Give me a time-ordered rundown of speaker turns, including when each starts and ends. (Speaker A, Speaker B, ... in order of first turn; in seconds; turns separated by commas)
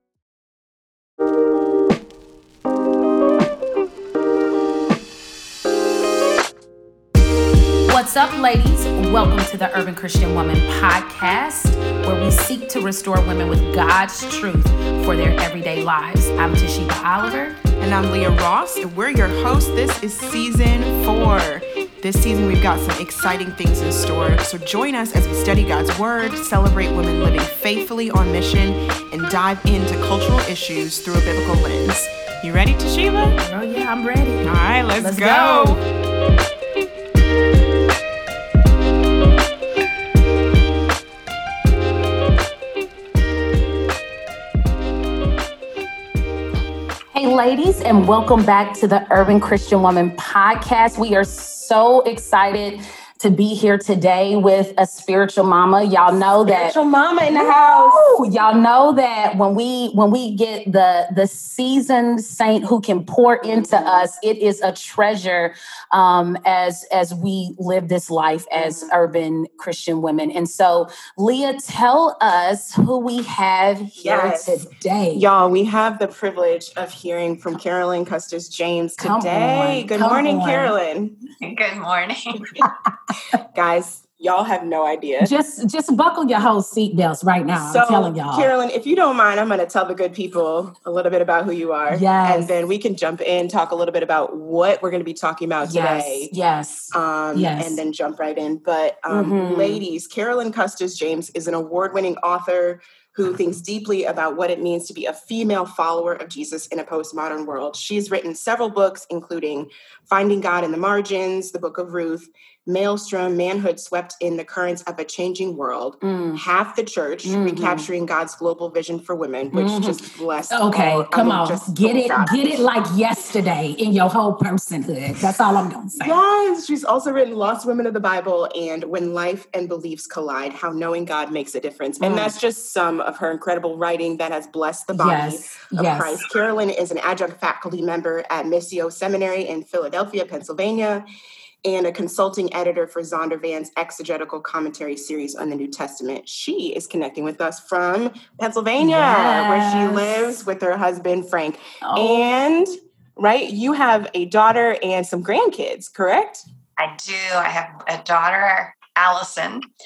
Speaker A: 7.9-17.6, Speaker B: 17.8-33.4, Speaker A: 33.4-35.8, Speaker B: 34.4-35.8, Speaker A: 47.1-56.8, Speaker B: 56.5-58.2, Speaker A: 57.3-75.2, Speaker B: 63.4-64.0, Speaker B: 68.5-68.9, Speaker B: 74.0-81.2, Speaker A: 79.0-80.7, Speaker C: 81.4-82.6, Speaker B: 83.5-85.3, Speaker A: 85.2-88.5, Speaker B: 87.5-96.3, Speaker A: 91.9-92.5, Speaker A: 95.6-97.8, Speaker B: 96.9-122.6, Speaker A: 99.1-99.8, Speaker A: 116.0-116.4, Speaker A: 117.2-117.9, Speaker A: 119.5-126.2, Speaker B: 126.0-141.0, Speaker A: 132.0-132.3, Speaker A: 134.9-136.2, Speaker B: 141.6-156.4, Speaker A: 148.8-150.4, Speaker A: 151.8-152.3, Speaker C: 156.8-159.6